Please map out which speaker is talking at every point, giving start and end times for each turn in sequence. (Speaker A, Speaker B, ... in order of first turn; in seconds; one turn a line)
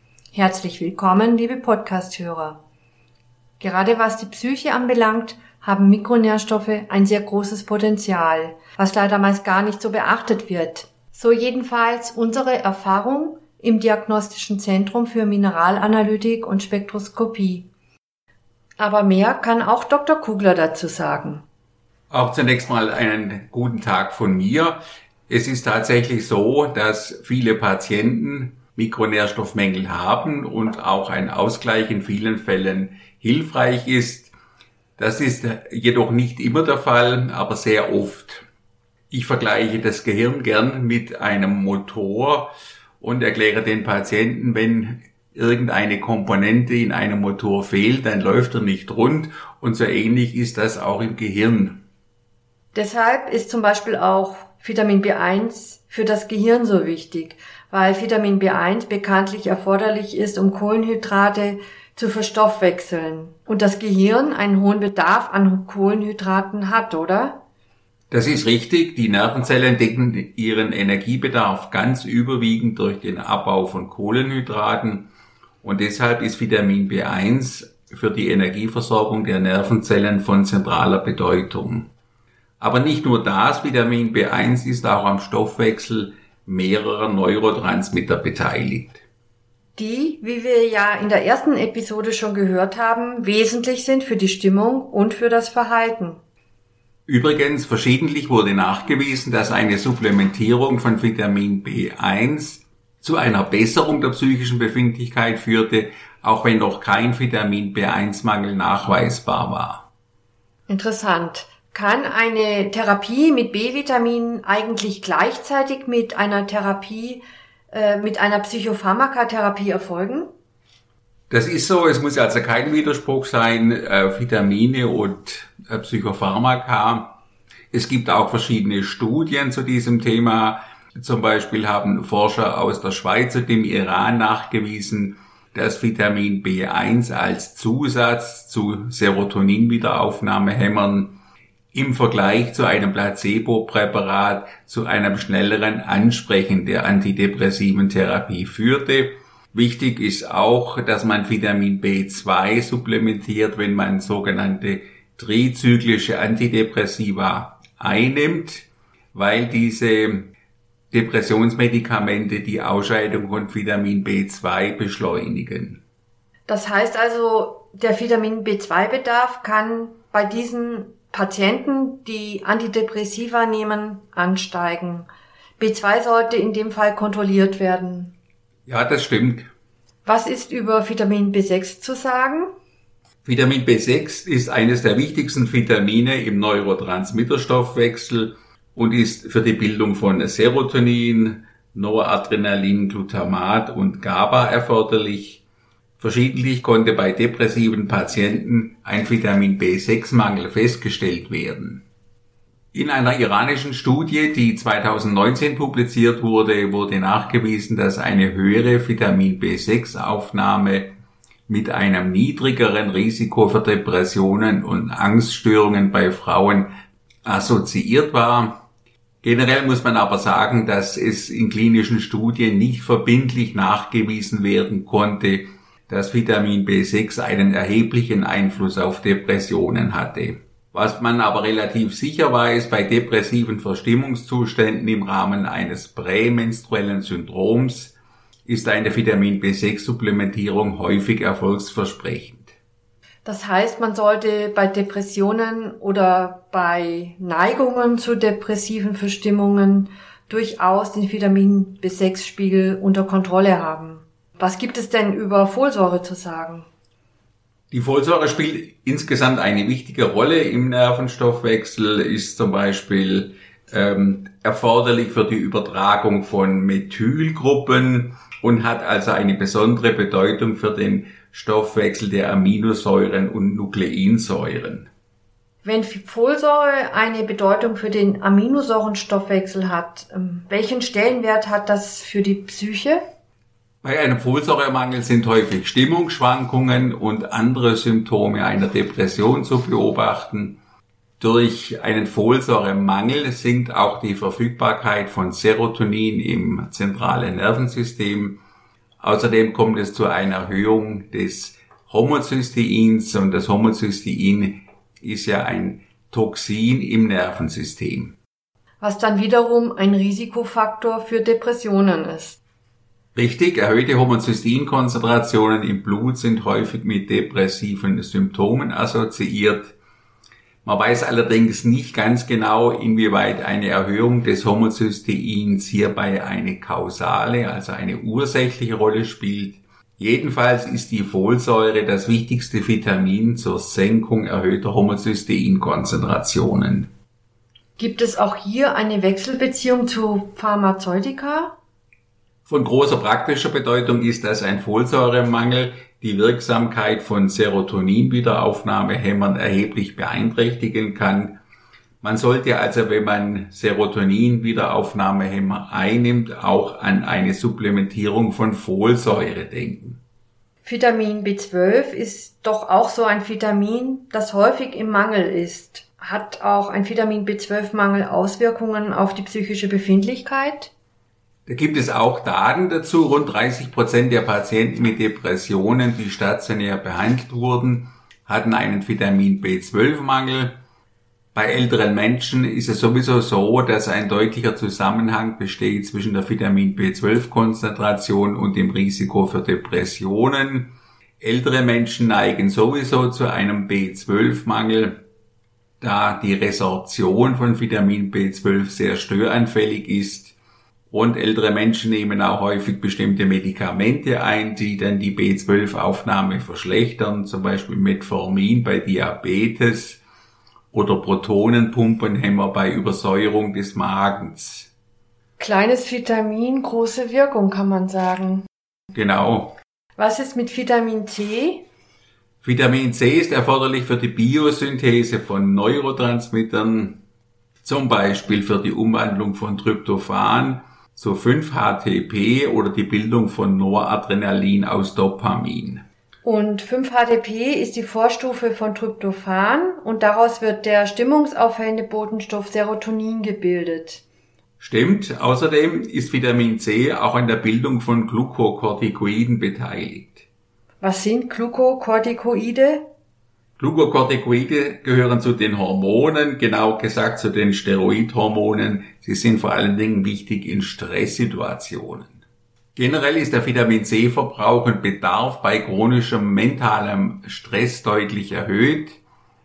Speaker A: 0.3-2.6
Speaker A: 3.6-17.7
Speaker A: 18.8-21.4
Speaker B: 22.1-34.3
Speaker B: 35.0-38.5
Speaker B: 39.1-51.8
Speaker A: 52.7-67.4
Speaker B: 68.1-75.1
Speaker B: 75.6-81.9
Speaker B: 82.6-89.0
Speaker A: 89.8-96.2
Speaker B: 97.1-109.8
Speaker A: 110.7-120.3
Speaker B: 121.3-127.2
Speaker B: 127.7-141.2
Speaker B: 141.7-160.3
Speaker B: 160.9-165.8
Speaker A: 166.5-178.1
Speaker B: 178.7-179.5
Speaker A: 180.0-182.5
Speaker B: 183.2-195.4
Speaker B: 196.0-201.8
Speaker B: 202.7-210.9
Speaker B: 211.5-218.6
Speaker B: 219.2-242.6
Speaker A: 243.2-256.7
Speaker B: 257.7-274.9
Speaker A: 275.6-283.0
Speaker B: 283.8-290.6
Speaker B: 291.2-298.4
Speaker B: 299.0-308.1
Speaker A: 308.8-312.4
Speaker B: 313.1-319.8
Speaker B: 320.6-336.9
Speaker A: 337.8-341.5
Speaker B: 342.4-351.4
Speaker B: 352.0-360.0
Speaker A: 360.6-370.7
Speaker B: 371.5-380.6
Speaker B: 381.3-395.0
Speaker B: 395.8-400.4
Speaker B: 400.9-410.0
Speaker B: 410.7-414.7
Speaker A: 415.4-418.4
Speaker B: 418.9-419.6
Speaker A: 420.0-421.6
Speaker B: 422.4-427.0
Speaker B: 427.6-435.8
Speaker A: 436.2-444.0
Speaker B: 444.6-450.3
Speaker A: 450.8-452.9
Speaker B: 453.6-462.2
Speaker B: 462.8-469.0